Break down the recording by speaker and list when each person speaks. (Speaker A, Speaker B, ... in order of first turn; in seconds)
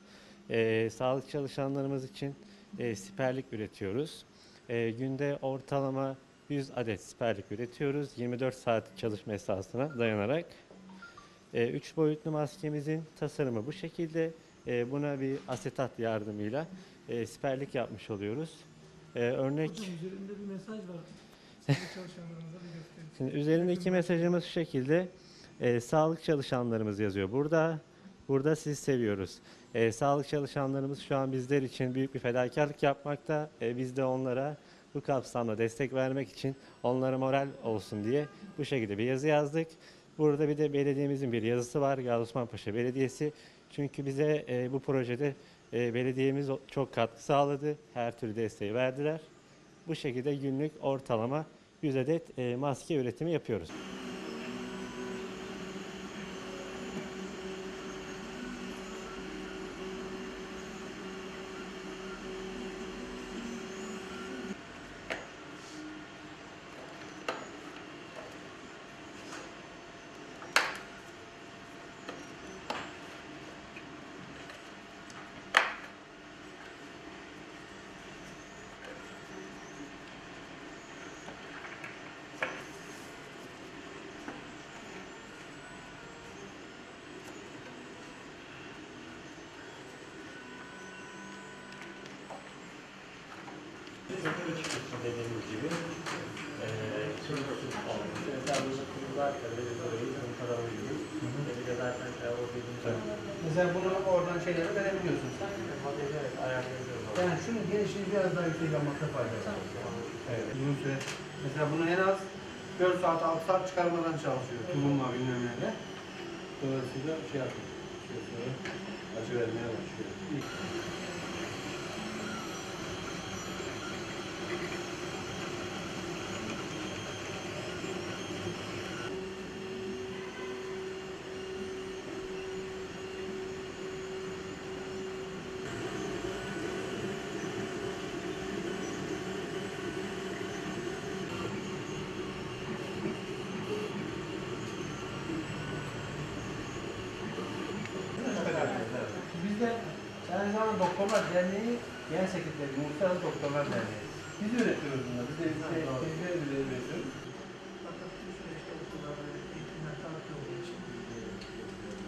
Speaker A: 0.5-10.5, 11.5-18.6, 19.1-19.9, 23.2-49.3, 49.9-53.7, 94.1-95.8, 96.5-103.1, 105.4-107.4, 109.4-110.5, 148.2-149.1, 155.7-156.0, 161.3-161.8
Speaker B: 19.6-24.4, 157.8-160.9
Speaker C: 101.2-101.5, 102.8-105.4, 107.1-109.6, 110.2-115.8, 116.6-118.6, 119.1-120.4, 148.2-157.1